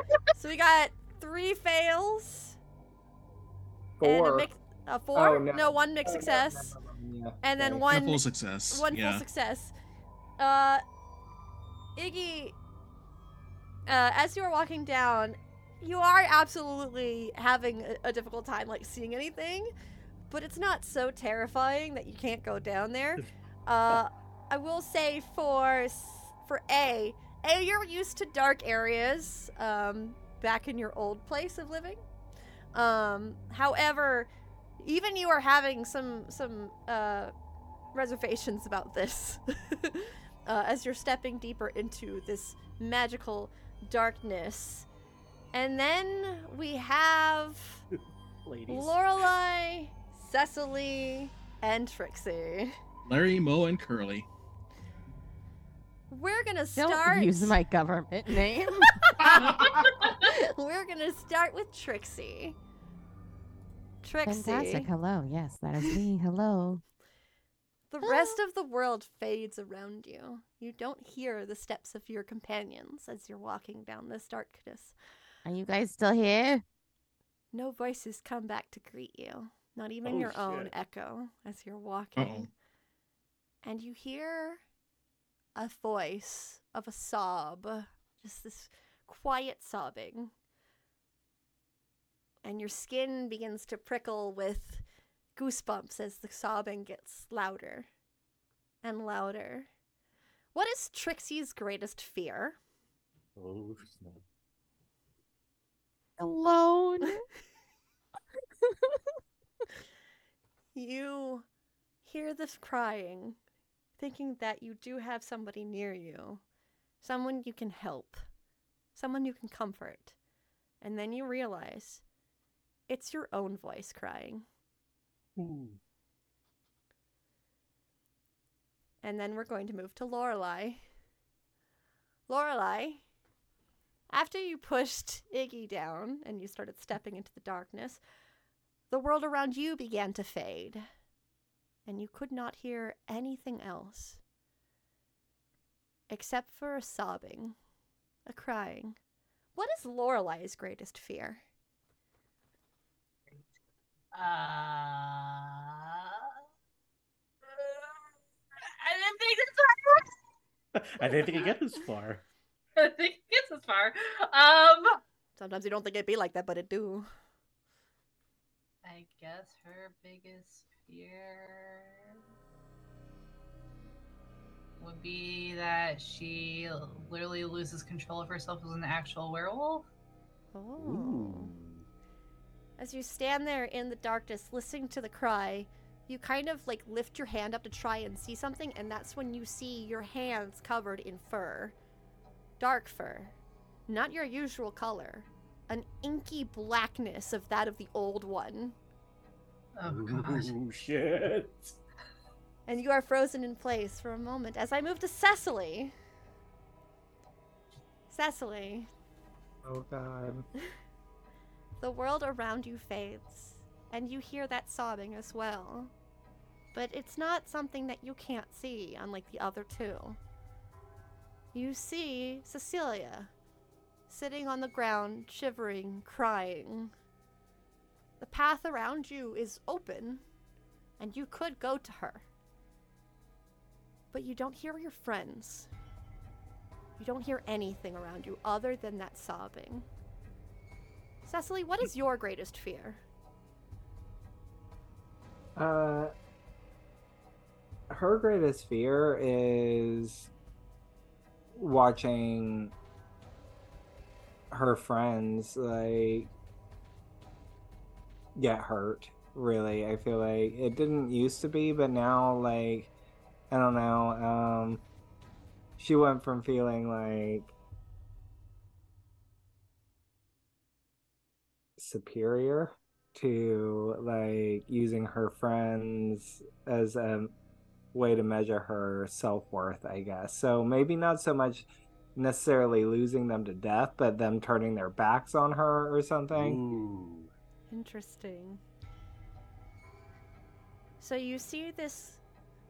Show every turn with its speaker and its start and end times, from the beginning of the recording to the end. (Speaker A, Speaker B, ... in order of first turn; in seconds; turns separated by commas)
Speaker A: 0.3-2.6, Speaker B: 4.0-4.5, Speaker A: 4.0-6.8, Speaker B: 5.2-7.8, Speaker A: 7.4-9.7, Speaker C: 7.9-9.2, Speaker A: 10.4-10.8, Speaker A: 12.0-12.6, Speaker A: 13.9-19.7, Speaker A: 20.3-32.0, Speaker A: 32.7-37.3, Speaker A: 37.9-44.9, Speaker A: 45.5-47.8, Speaker D: 48.5-49.0, Speaker A: 48.7-52.7, Speaker C: 53.1-54.3, Speaker A: 56.1-57.6, Speaker E: 56.8-59.0, Speaker A: 58.9-62.6, Speaker C: 59.2-60.1, Speaker A: 64.0-64.9, Speaker E: 64.3-66.8, Speaker A: 67.9-75.0, Speaker E: 68.0-68.4, Speaker E: 75.5-76.6, Speaker A: 77.5-82.5, Speaker D: 80.0-80.7, Speaker C: 82.2-82.5, Speaker A: 83.6-84.6, Speaker A: 85.6-90.3, Speaker A: 92.4-94.8, Speaker A: 95.4-97.9, Speaker A: 98.8-99.7, Speaker A: 100.5-102.6, Speaker D: 103.4-104.2, Speaker E: 106.2-107.2, Speaker A: 110.7-111.5, Speaker A: 112.0-113.4, Speaker A: 114.0-116.4, Speaker A: 117.0-118.2, Speaker A: 119.0-120.2, Speaker A: 120.8-122.0, Speaker A: 122.9-124.5, Speaker D: 125.4-125.8, Speaker A: 129.0-130.8, Speaker A: 132.3-133.0, Speaker A: 134.1-138.0, Speaker A: 138.9-140.8, Speaker A: 141.9-144.2, Speaker A: 146.1-147.6, Speaker A: 148.3-149.0, Speaker A: 149.6-151.4, Speaker F: 154.1-156.4, Speaker F: 157.5-158.0, Speaker F: 158.6-160.2, Speaker D: 160.8-162.2, Speaker F: 162.8-165.0, Speaker A: 165.4-167.1, Speaker F: 168.8-172.2, Speaker F: 174.8-179.9, Speaker A: 180.5-181.5, Speaker D: 180.8-181.9, Speaker A: 182.8-191.8, Speaker A: 192.6-193.4, Speaker A: 193.9-198.8, Speaker F: 199.8-200.5, Speaker D: 199.8-201.8, Speaker A: 202.7-205.9, Speaker A: 208.1-208.9, Speaker B: 209.6-210.4, Speaker A: 211.8-215.9, Speaker A: 216.7-220.2, Speaker A: 221.5-223.3, Speaker A: 224.1-226.9, Speaker A: 228.2-230.2, Speaker A: 231.0-232.2, Speaker A: 234.1-235.7, Speaker A: 237.0-239.9, Speaker A: 241.2-243.0, Speaker B: 245.6-246.1, Speaker B: 247.9-250.3, Speaker B: 251.5-252.7, Speaker B: 254.5-256.3, Speaker B: 258.4-262.9, Speaker B: 263.5-264.8, Speaker B: 265.8-267.5, Speaker B: 271.8-277.4, Speaker B: 277.9-286.6, Speaker D: 286.3-287.3, Speaker A: 287.7-288.6, Speaker A: 291.0-292.2